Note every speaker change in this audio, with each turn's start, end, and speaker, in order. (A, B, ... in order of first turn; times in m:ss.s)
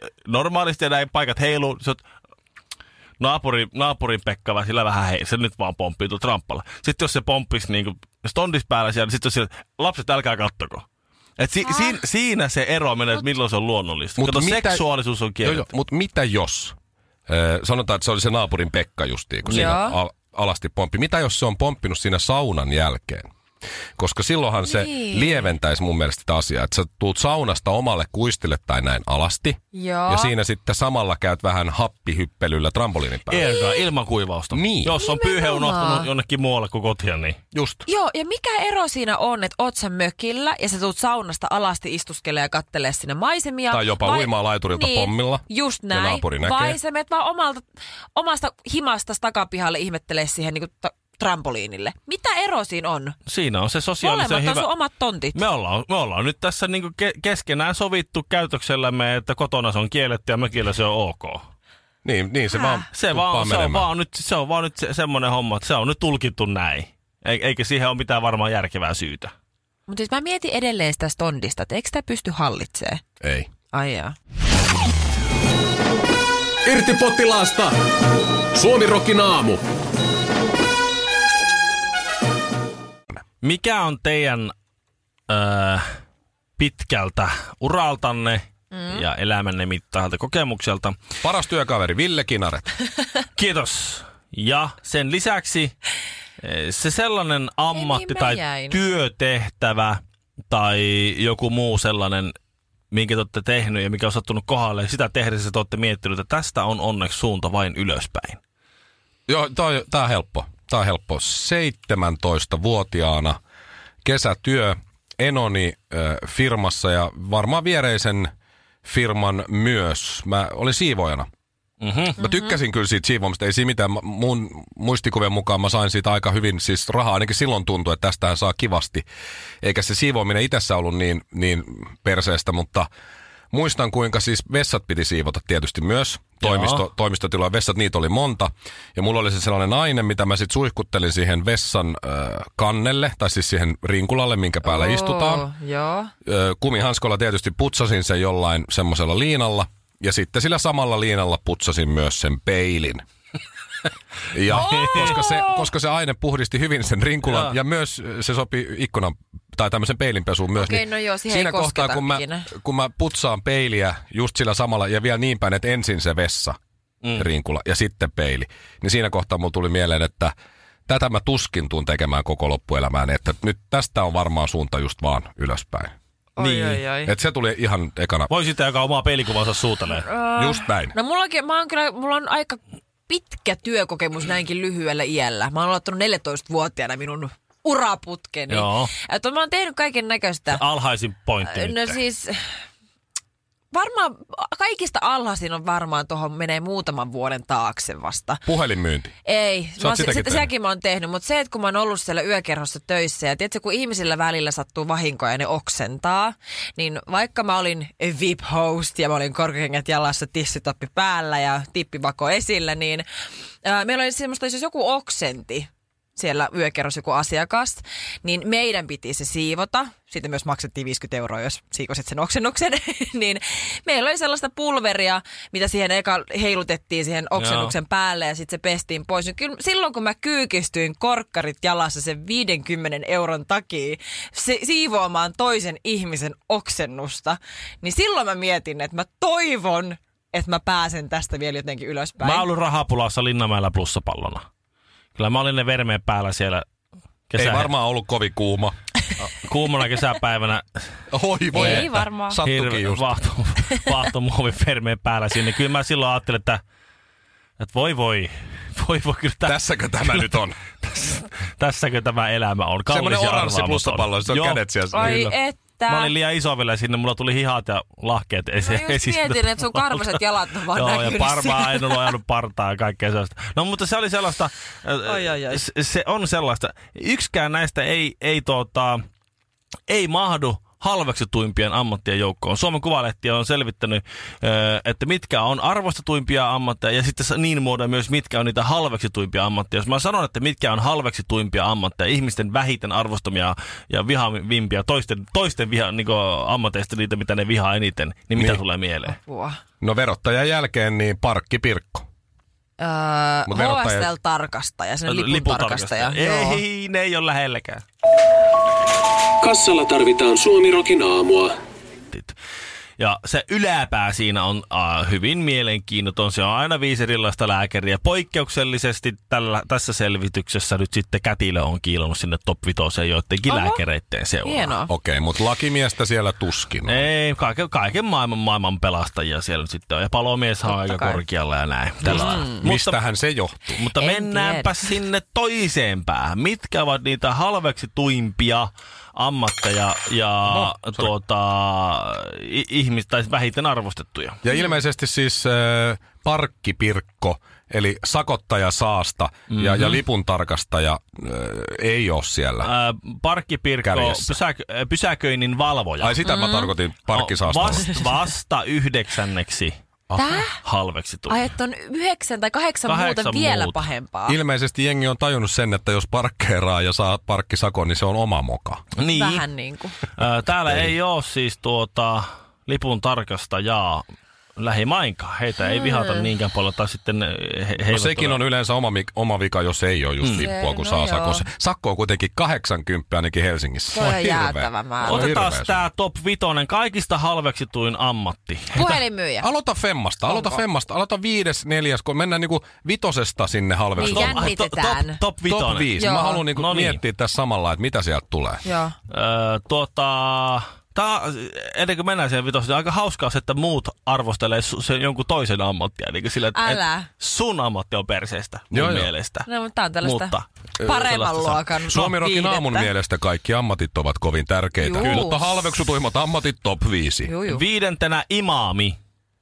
0:00.2-0:02.0 A
0:03.2-0:10.8 A
0:11.4-0:15.7 A
0:11.6-0:12.0 B
0:14.2-0:14.8 C
0:15.4-0:16.8 C
0:17.3-0:23.2 C
0:19.5-0:20.0 B
0:19.5-0:19.7 A
0:24.0-0:33.5 C
0:24.6-0:25.5 B
0:29.7-0:30.3 B
0:33.3-0:37.4 A
0:33.4-0:33.8 B
0:34.5-0:35.0 C
0:34.9-0:36.1 B
0:37.5-0:37.8 C
0:37.8-0:53.1 B
0:43.7-0:46.8 C
0:53.3-0:54.7 A
0:54.0-0:55.4 B
0:55.3-1:01.4 A
1:02.0-1:03.9 C
1:02.5-1:02.8 B
1:02.9-1:09.3 A
1:09.9-1:13.0 B
1:13.2-1:13.5 C
1:13.7-1:14.1 B
1:16.6-1:17.8 D
1:18.5-1:19.6 D
1:23.4-1:24.5 A
1:25.3-1:26.0 A
1:26.6-1:31.0 A
1:28.7-1:29.0 B
1:31.2-1:32.7 C
1:33.4-1:35.7 A
1:36.4-1:42.3 A
1:37.7-1:38.8 B
1:42.9-1:48.4 A
1:49.3-1:53.4 C
1:54.0-1:58.3 C
1:58.8-2:01.3 C
2:01.8-2:02.2 A
2:02.2-2:09.0 C
2:09.6-2:12.9 C
2:13.5-2:25.5 C
2:16.4-2:16.8 A
2:24.6-2:26.1 B
2:26.2-2:33.0 C
2:34.3-2:46.6 C
2:34.5-2:35.1 A
2:34.5-2:35.7 B
2:37.3-2:37.5 A
2:40.5-2:42.5 B
2:47.1-2:50.3 C
2:50.9-2:55.9 C
2:56.4-2:57.1 B
2:56.4-2:56.8 A
2:57.0-2:58.3 C
2:58.3-3:00.1 A
2:59.9-3:10.6 B
3:00.3-3:00.9 C
3:08.5-3:08.9 A
3:10.5-3:12.0 A
3:11.4-3:12.5 B
3:13.7-3:18.4 B
3:18.5-3:19.1 C
3:19.2-3:33.0 B
3:19.8-3:20.5 C
3:33.6-4:02.5 B
3:47.4-3:47.7 A
4:02.2-4:04.4 A
4:05.2-4:06.6 A
4:07.3-4:07.7 A
4:07.4-4:08.7 C
4:09.2-4:11.0 A
4:11.1-4:13.3 C
4:11.5-4:12.4 B
4:11.5-4:11.9 A
4:12.4-4:16.6 A
4:17.6-4:25.3 A
4:19.4-4:20.6 C
4:22.9-4:25.2 C
4:24.9-4:26.1 B
4:25.9-4:30.2 A
4:28.6-4:32.1 B
4:30.7-4:39.0 A
4:35.0-4:35.6 B
4:39.9-4:59.2 A
4:58.3-4:58.6 C
4:59.1-4:59.6 B
4:59.8-5:02.0 C
5:02.8-5:06.6 B
5:03.5-5:04.1 C
5:05.0-5:07.8 A
5:09.4-5:11.5 D
5:13.0-5:24.8 A
5:23.5-5:23.8 B
5:24.4-5:24.9 B
5:24.9-5:27.0 C
5:26.8-5:33.0 A
5:30.7-5:31.2 B
5:32.0-5:33.8 C
5:32.1-5:32.6 B
5:33.8-5:44.4 A
5:33.9-5:34.8 B
5:40.5-5:41.1 C
5:44.4-5:52.7 C
5:49.5-5:50.0 A
5:52.6-5:56.2 A
5:53.8-5:54.4 C
5:56.0-5:57.9 C
5:56.2-5:56.7 B
5:57.1-5:59.7 A
6:00.1-6:00.4 C
6:00.1-6:00.6 B
6:00.6-6:01.4 A
6:01.3-6:04.4 B
6:02.9-6:03.9 A
6:04.3-6:08.8 C
6:09.0-6:09.5 A
6:09.1-6:10.0 B
6:10.1-6:14.0 A
6:14.6-6:18.4 A
6:15.6-6:16.2 B
6:17.8-6:25.8 C
6:20.3-6:21.5 B
6:23.9-6:25.3 B
6:25.0-6:29.0 A
6:28.7-6:29.5 B
6:29.4-6:34.5 C
6:30.3-6:30.6 B
6:34.0-6:35.2 B
6:34.0-6:37.0 A
6:35.4-6:38.6 C
6:36.0-6:36.4 B
6:38.6-6:38.9 B
6:39.1-6:49.5 A
6:46.5-6:47.1 B
6:48.7-6:49.1 C
6:49.4-6:52.9 B
6:50.0-6:50.4 A
6:50.8-6:57.3 C
6:54.8-6:55.6 B
6:55.0-6:55.3 A
6:57.2-6:57.6 B
6:57.5-6:59.0 A